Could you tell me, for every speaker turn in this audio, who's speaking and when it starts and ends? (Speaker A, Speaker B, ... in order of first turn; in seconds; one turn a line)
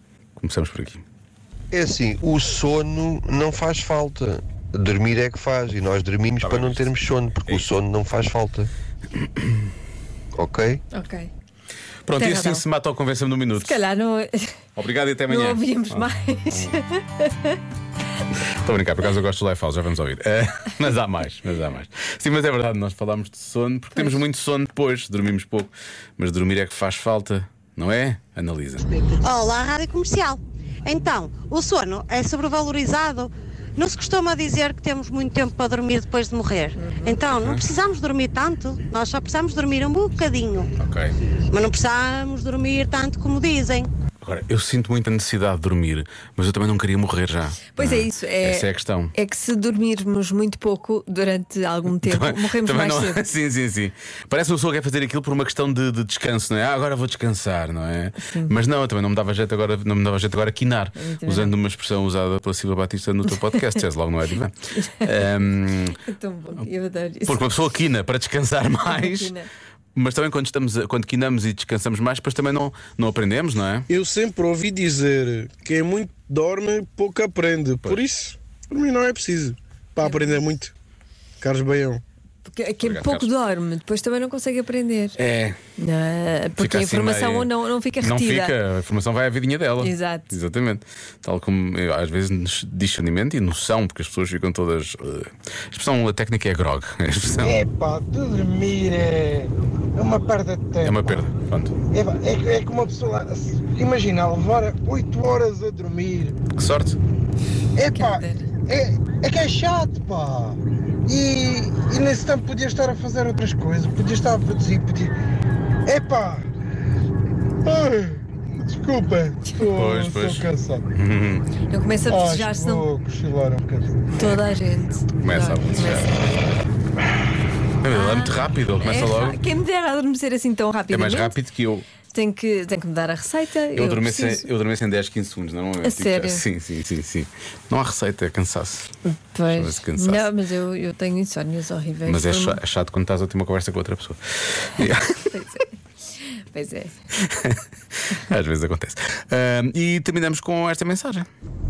Speaker A: 0.4-1.0
Speaker B: 1.7-8.7
Speaker A: 6.4-7.7
Speaker B: 10.3-10.8
Speaker C: 10.9-11.3
Speaker A: 12.1-13.8
Speaker C: 12.1-12.6
Speaker C: 13.6-14.5
Speaker A: 14.8-16.7
Speaker C: 15.3-17.6
Speaker A: 18.6-28.9
Speaker D: 29.1-40.7
Speaker C: 36.8-37.1
Speaker A: 40.8-41.2
Speaker D: 41.5-43.9
Speaker A: 44.2-49.1
Speaker C: 47.7-53.3
Speaker A: 52.0-66.0
Speaker C: 58.2-58.5
Speaker C: 61.0-61.5
Speaker C: 64.7-65.2
Speaker C: 66.0-67.5
Speaker A: 67.3-69.3
Speaker C: 68.8-69.5
Speaker A: 70.0-73.9
Speaker E: 73.9-80.7
Speaker C: 80.0-80.4
Speaker E: 81.4-82.0
Speaker C: 82.5-85.2
Speaker A: 82.8-83.3
Speaker A: 85.2-85.6
Speaker C: 85.8-88.5
Speaker A: 86.6-87.5
Speaker A: 88.0-97.6
Speaker C: 89.8-90.3
Speaker F: 97.4-100.9
Speaker A: 100.8-101.7
Speaker F: 101.9-106.4
Speaker A: 106.5-107.0
Speaker F: 107.7-115.1
Speaker C: 107.9-108.5
Speaker F: 115.8-116.5
Speaker F: 117.7-120.8
Speaker E: 119.5-120.0
Speaker A: 119.7-121.4
Speaker C: 121.7-122.8
Speaker F: 122.1-124.0
Speaker C: 124.1-126.2
Speaker A: 125.2-126.1
Speaker A: 127.8-129.4
Speaker C: 127.9-131.3
Speaker A: 130.9-131.8
Speaker C: 132.1-134.5
Speaker A: 133.8-138.9
Speaker C: 135.8-136.4
Speaker C: 139.1-142.6
Speaker A: 139.5-140.3
Speaker A: 142.1-145.3
Speaker C: 145.3-145.8
Speaker C: 146.3-147.0
Speaker A: 147.2-151.3